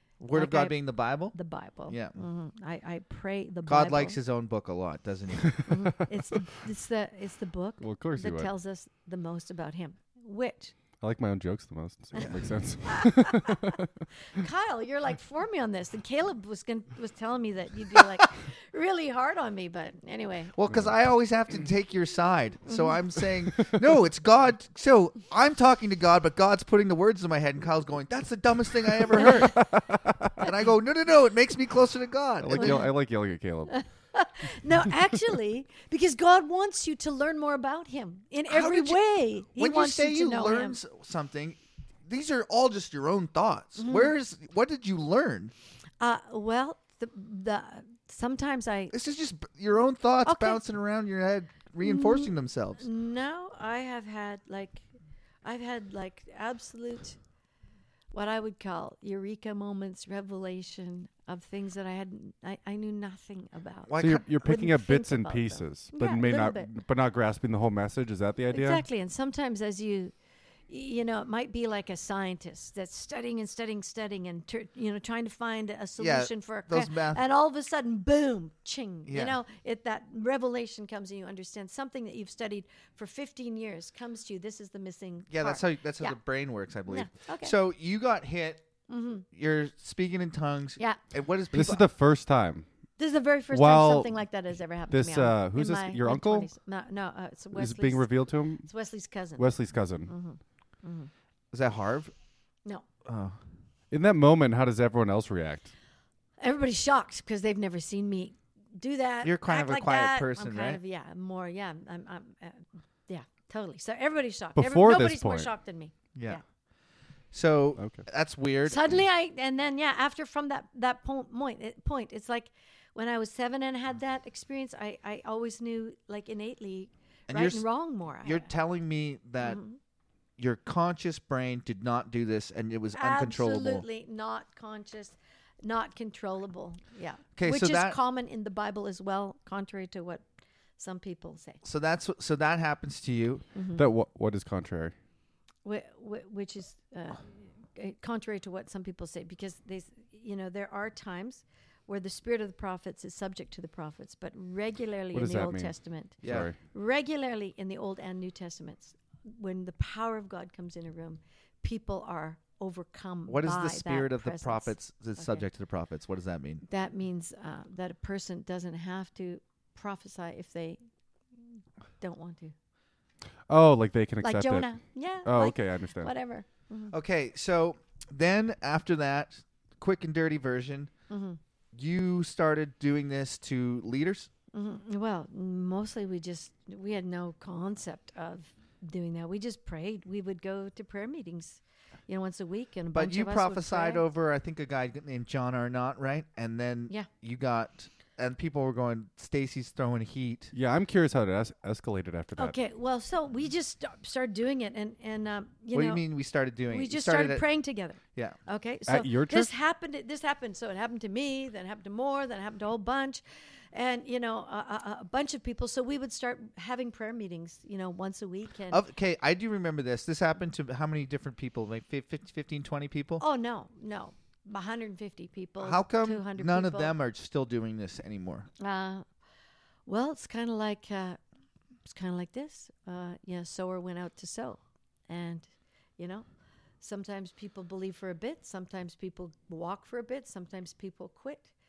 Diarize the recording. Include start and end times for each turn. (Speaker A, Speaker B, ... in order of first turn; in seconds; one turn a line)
Speaker A: 0.2-1.4
Speaker B: 0.3-0.8
Speaker B: 1.3-4.2
Speaker A: 1.9-2.2
Speaker A: 3.6-5.6
Speaker C: 5.4-5.7
Speaker B: 5.7-10.7
Speaker C: 7.8-8.5
Speaker C: 11.0-14.0
Speaker B: 12.8-20.5
Speaker A: 20.5-29.7
Speaker C: 23.5-23.8
Speaker B: 29.1-29.4
Speaker C: 29.1-30.5
Speaker A: 30.4-32.9
Speaker C: 32.4-33.8
Speaker B: 32.5-32.9
Speaker B: 33.7-40.8
Speaker A: 38.5-45.5
Speaker B: 43.8-44.1
Speaker B: 46.0-48.9
Speaker A: 48.9-52.8
Speaker B: 50.2-50.6
Speaker B: 51.8-54.9
Speaker B: 55.4-57.2
Speaker B: 58.1-66.7
Speaker A: 63.9-64.2
Speaker C: 63.9-68.8
Speaker B: 68.5-70.1
Speaker B: 70.7-86.2
Speaker A: 76.0-77.2
Speaker A: 79.1-79.3
Speaker A: 85.3-88.6
Speaker B: 86.9-87.5
Speaker B: 88.9-89.2
Speaker A: 89.3-91.8
Speaker C: 91.5-92.7
Speaker B: 93.0-98.0
Speaker C: 93.5-94.1
Speaker C: 94.9-96.5
Speaker C: 97.5-98.7
Speaker B: 98.6-99.5
Speaker C: 99.4-100.1
Speaker B: 100.1-101.1
Speaker A: 101.5-102.1
Speaker A: 103.0-103.4
Speaker C: 103.9-105.7
Speaker B: 106.4-116.4
Speaker A: 109.2-110.8
Speaker C: 114.6-115.5
Speaker A: 116.1-116.4
Speaker A: 117.3-119.0
Speaker B: 118.6-128.5
Speaker A: 127.3-127.7
Speaker A: 128.2-129.6
Speaker B: 129.4-129.8
Speaker A: 130.4-133.8
Speaker B: 132.9-140.2
Speaker A: 137.3-138.0
Speaker B: 140.8-141.6
Speaker A: 141.6-143.4
Speaker B: 143.5-143.8
Speaker C: 143.8-144.9
Speaker B: 145.6-165.4
Speaker C: 155.1-156.6
Speaker A: 156.2-156.5
Speaker A: 163.3-166.6
Speaker B: 166.6-170.8
Speaker B: 172.0-172.5
Speaker C: 173.5-174.7
Speaker B: 174.2-176.9
Speaker C: 175.2-176.1
Speaker A: 176.9-180.9
Speaker B: 181.1-181.4
Speaker A: 181.7-184.3
Speaker B: 184.5-194.0
Speaker A: 192.9-200.5
Speaker C: 200.5-202.5
Speaker B: 202.4-206.0
Speaker A: 205.7-207.5
Speaker B: 206.7-213.2
Speaker C: 208.9-209.5
Speaker B: 213.7-218.8
Speaker A: 218.7-223.2
Speaker B: 223.2-226.9
Speaker A: 225.6-228.5
Speaker B: 228.6-229.0
Speaker B: 229.8-231.2
Speaker B: 231.8-236.2
Speaker B: 236.8-241.5